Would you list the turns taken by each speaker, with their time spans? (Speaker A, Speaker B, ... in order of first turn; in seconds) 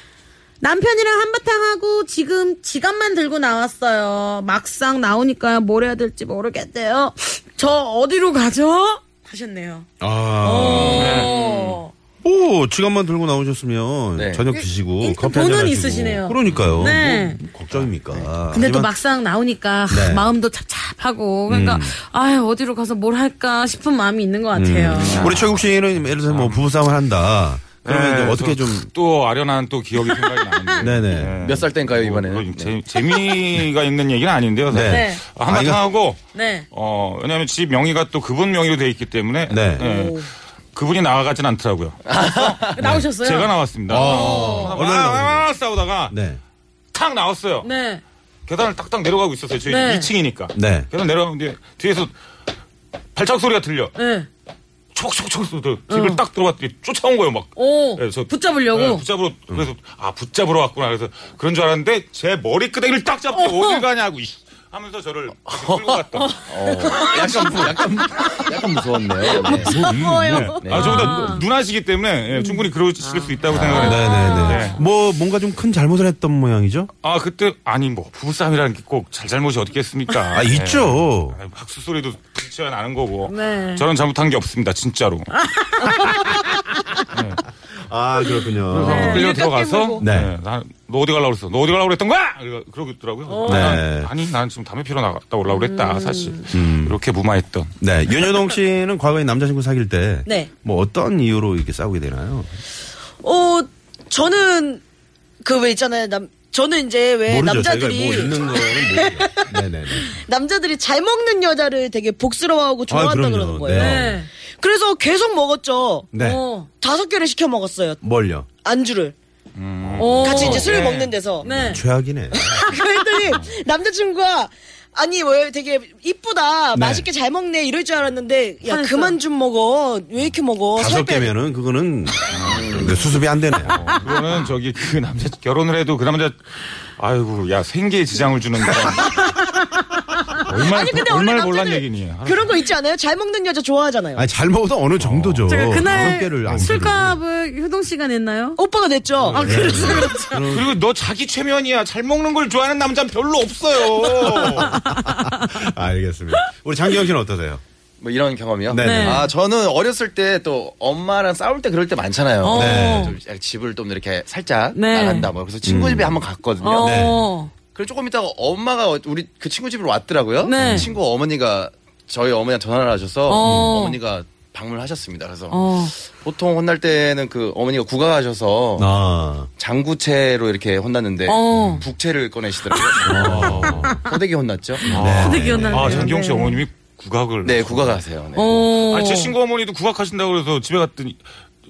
Speaker A: 0.6-9.9, 10.4-11.9, 14.5-17.4, 18.5-25.3, 34.8-35.2, 36.3-36.7, 42.4-44.8, 47.6-48.0, 49.7-50.1, 54.0-54.3, 55.9-56.2, 57.5-59.0, 63.3-63.8, 66.2-67.6, 70.5-71.4, 72.3-72.6, 73.7-74.7, 83.3-83.8, 85.3-86.7, 88.9-89.3, 93.3-93.8, 95.6-96.3, 113.7-114.3, 116.1-116.7, 120.0-120.7, 121.4-121.8, 128.6-129.2, 145.5-148.6, 149.3-150.5, 154.4-155.7, 158.7-159.3, 162.4-163.1, 164.7-165.3, 166.6-167.5, 170.4-170.9, 173.3-174.0, 175.5-175.9, 181.3-181.8, 182.9-183.9, 184.9-186.6, 188.3-189.3
Speaker B: 10.0-11.3, 12.2-18.9, 19.9-20.3, 21.5-21.9, 24.5-28.9, 30.8-31.4, 34.7-35.8, 39.5-39.9, 42.8-43.1, 43.9-45.5, 46.1-46.4, 50.5-50.9, 73.5-76.9, 80.3-81.4, 87.7-89.2, 90.0-90.3, 93.4-94.1, 96.5-97.0, 97.8-102.6, 107.2-110.1, 112.9-114.2, 116.1-116.4, 118.0-118.5, 120.1-120.6, 121.4-122.7, 126.7-127.1, 130.7-133.9, 144.2-147.2, 149.3-150.7, 154.1-157.6, 158.7-159.3, 162.5-163.1, 165.6-166.2, 166.8-167.3, 170.6-170.9, 173.4-173.7, 178.8-179.5, 183.0-184.1, 184.9-186.2
Speaker C: 10.9-11.8, 25.0-26.7, 27.8-46.1, 46.9-47.7, 48.5-52.1, 53.1-53.9, 54.9-66.8, 68.1-68.4, 69.6-74.8, 77.0-85.3, 87.1-87.4, 88.7-97.7, 119.5-121.2, 132.3-133.1, 133.6-139.3, 140.4-142.6, 145.0-147.0, 149.2-154.7, 183.4-183.7, 184.9-188.0, 188.6-191.2
Speaker D: 14.2-14.5, 31.4-32.7, 42.1-42.6, 65.5-70.0, 70.5-71.1, 132.4-133.0, 158.0-166.9, 167.7-178.9, 179.6-184.9, 187.4-188.6
Speaker E: 39.8-40.1, 69.3-71.3, 73.8-74.5, 88.9-90.0, 103.2-104.8, 105.4-116.1, 116.8-118.0, 118.6-119.1, 120.2-121.4, 122.3-131.3, 140.5-144.2, 148.6-149.4